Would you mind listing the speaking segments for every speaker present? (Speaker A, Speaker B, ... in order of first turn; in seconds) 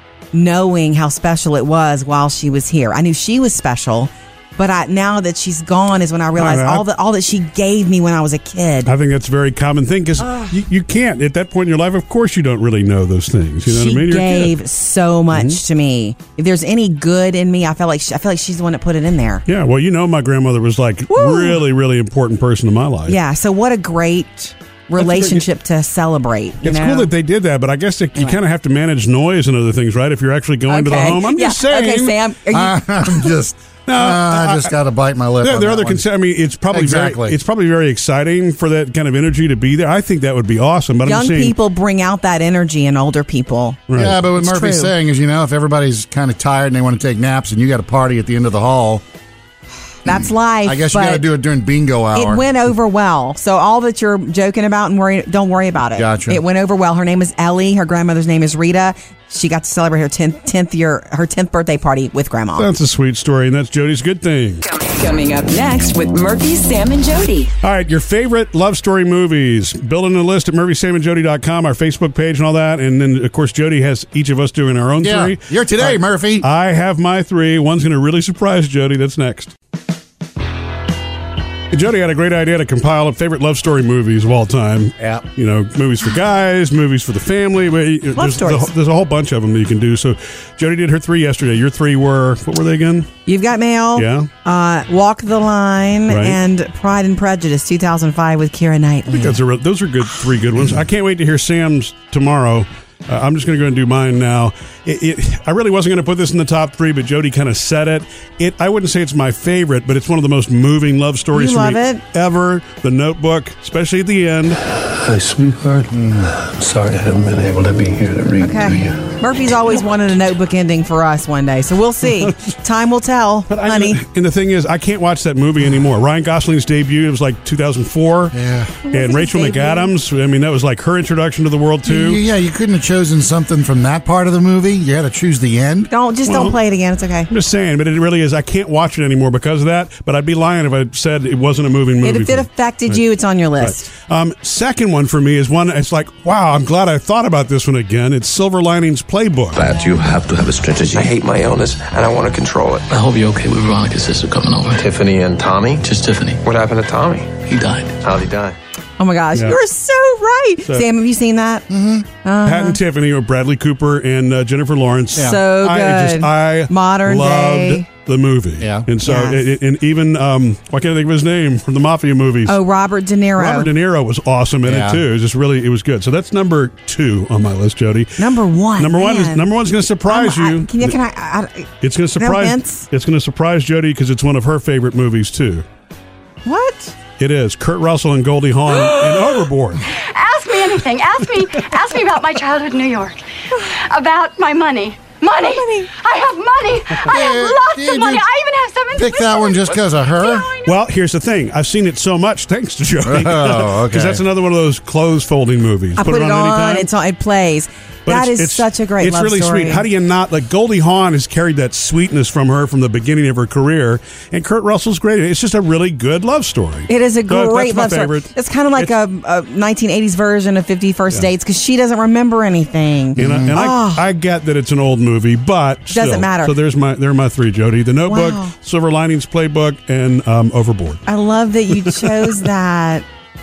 Speaker A: 0.3-8.9, 13.7-19.4, 21.1-21.6, 23.1-27.1, 30.7-33.3, 41.0-43.8, 44.4-44.9, 50.0-51.2, 52.1-62.7, 88.2-88.7, 93.3-99.4, 111.3-112.0, 118.4-124.0, 128.9-129.9, 135.9-137.3, 142.0-143.8, 159.0-161.7, 162.2-162.8, 165.2-167.8, 169.0-169.4, 172.5-173.7, 178.2-179.5, 180.1-182.8, 186.4-186.9, 195.4-195.9, 206.0-209.8, 216.9-224.0, 225.9-226.5, 228.1-228.5, 231.1-233.0
Speaker B: 6.3-6.8, 8.8-14.5, 15.3-15.6, 19.5-23.2, 25.0-25.4, 26.6-32.1, 33.9-34.7, 35.4-41.5, 43.9-44.2, 62.5-64.6, 67.6-79.5, 81.7-93.1, 94.0-94.3, 96.1-96.4, 99.1-114.6, 123.5-128.3, 128.9-132.2, 136.3-136.6, 137.3-143.0, 143.6-149.6, 162.4-172.6, 173.4-178.2, 178.8-181.0, 181.8-185.6, 187.2-189.8, 200.6-206.9, 208.1-218.9, 223.2-231.0, 232.0-232.3
Speaker C: 32.5-36.0, 36.7-37.4, 43.9-49.0, 50.6-52.4, 56.0-56.4, 75.0-76.5, 85.0-85.2, 128.3-128.7, 131.8-135.9, 161.7-162.1, 168.6-168.9, 174.6-175.0, 197.1-198.2, 198.9-200.5, 203.0-204.2, 223.2-223.6
Speaker D: 64.6-67.5
Speaker E: 149.5-153.0, 154.3-158.6
Speaker F: 190.0-200.7